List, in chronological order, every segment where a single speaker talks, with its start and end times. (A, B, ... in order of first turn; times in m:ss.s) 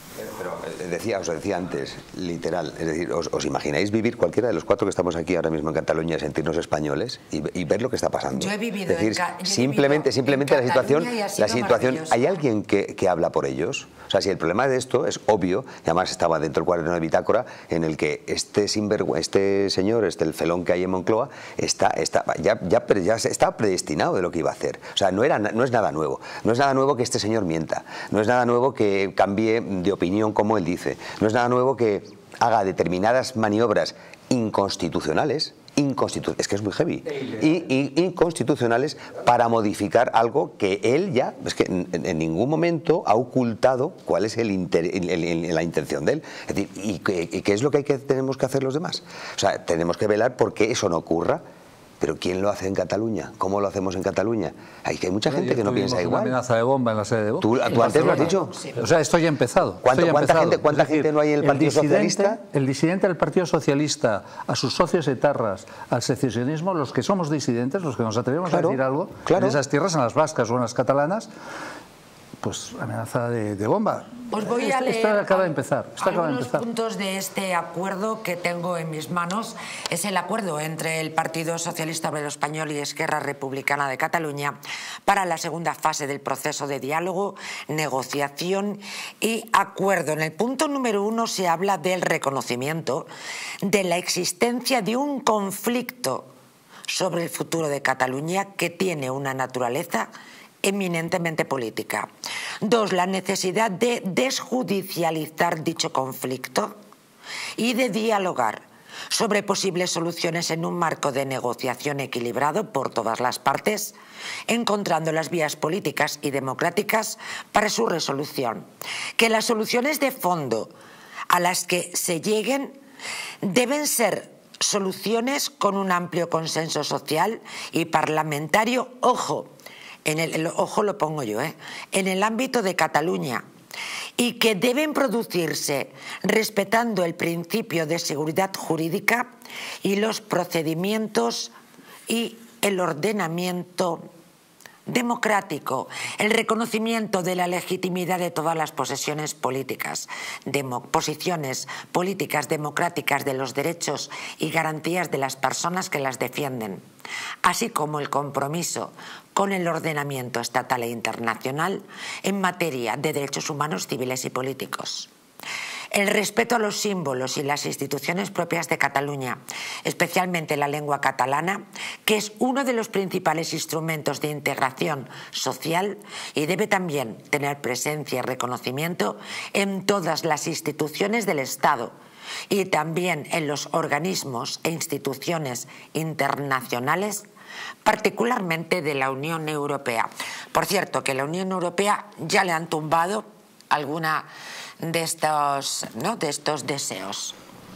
0:00.2-0:51.4 A
0:08.3-0:12.4 B
0:37.1-0:37.7 C
0:52.0-0:56.4 A
0:55.3-1:11.3 C
0:57.4-0:58.6 A
0:59.8-1:02.4 A
1:08.5-1:09.6 A
1:12.4-1:16.6 C
1:14.3-1:33.1 B
1:33.6-1:36.3 B
1:36.9-1:40.1 B
1:40.6-1:42.1 B
1:42.6-1:46.8 B
1:47.6-1:54.0 B
1:54.5-1:58.7 B
1:59.2-2:00.7 B
2:01.3-2:02.8 B
2:03.4-2:09.5 B
2:10.0-2:13.4 B
2:14.2-2:19.3 B
2:19.8-2:21.5 B
2:22.1-2:24.0 B
2:24.9-2:36.8 B
2:37.4-2:45.1 B
2:45.9-3:01.9 B
3:02.5-3:07.2 B
3:07.8-3:14.3 B
3:14.8-3:17.4 B